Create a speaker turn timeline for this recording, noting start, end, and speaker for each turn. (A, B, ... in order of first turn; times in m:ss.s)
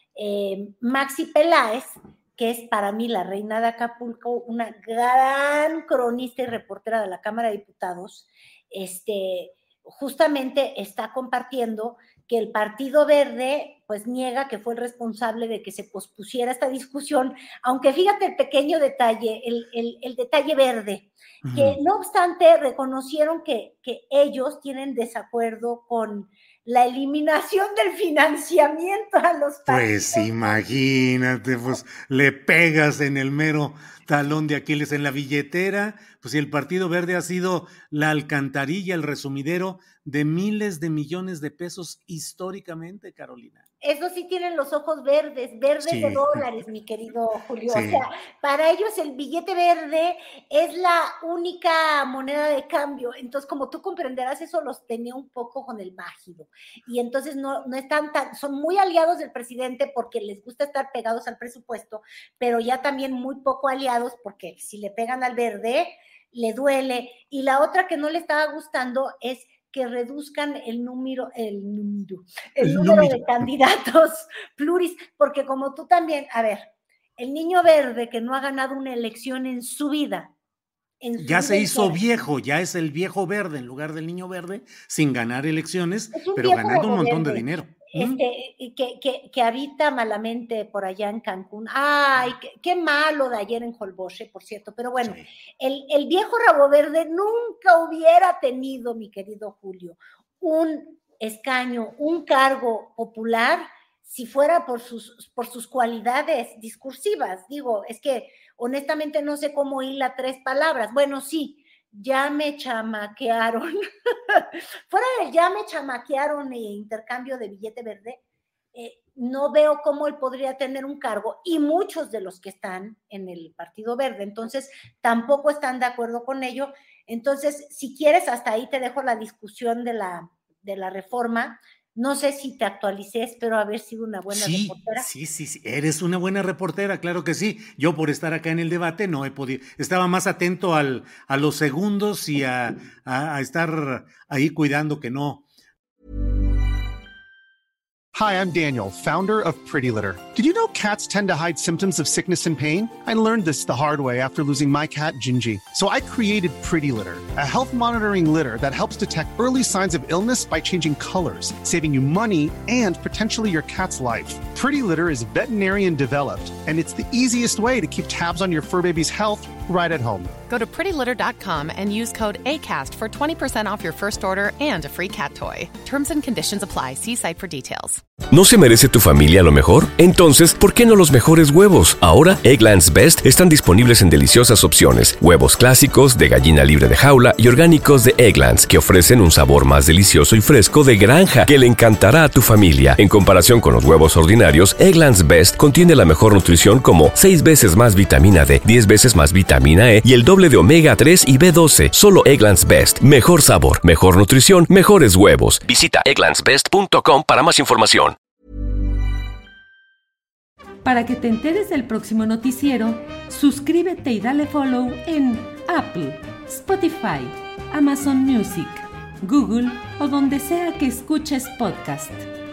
0:00.2-0:30.6 A
0:21.4-0:21.8 B
0:29.7-0:43.6 B
0:43.8-1:20.3 A
0:45.8-0:46.5 B
0:47.7-0:48.0 B
1:12.6-1:13.5 B
1:21.0-1:22.0 A
1:21.2-1:28.2 B
1:26.1-1:53.8 A
1:35.0-1:35.3 B
1:54.3-1:58.2 A
1:58.8-2:15.1 A
2:14.3-2:25.4 B
2:28.1-2:50.3 C
2:50.5-2:58.0 D
2:58.3-3:28.2 E
3:30.8-3:42.3 F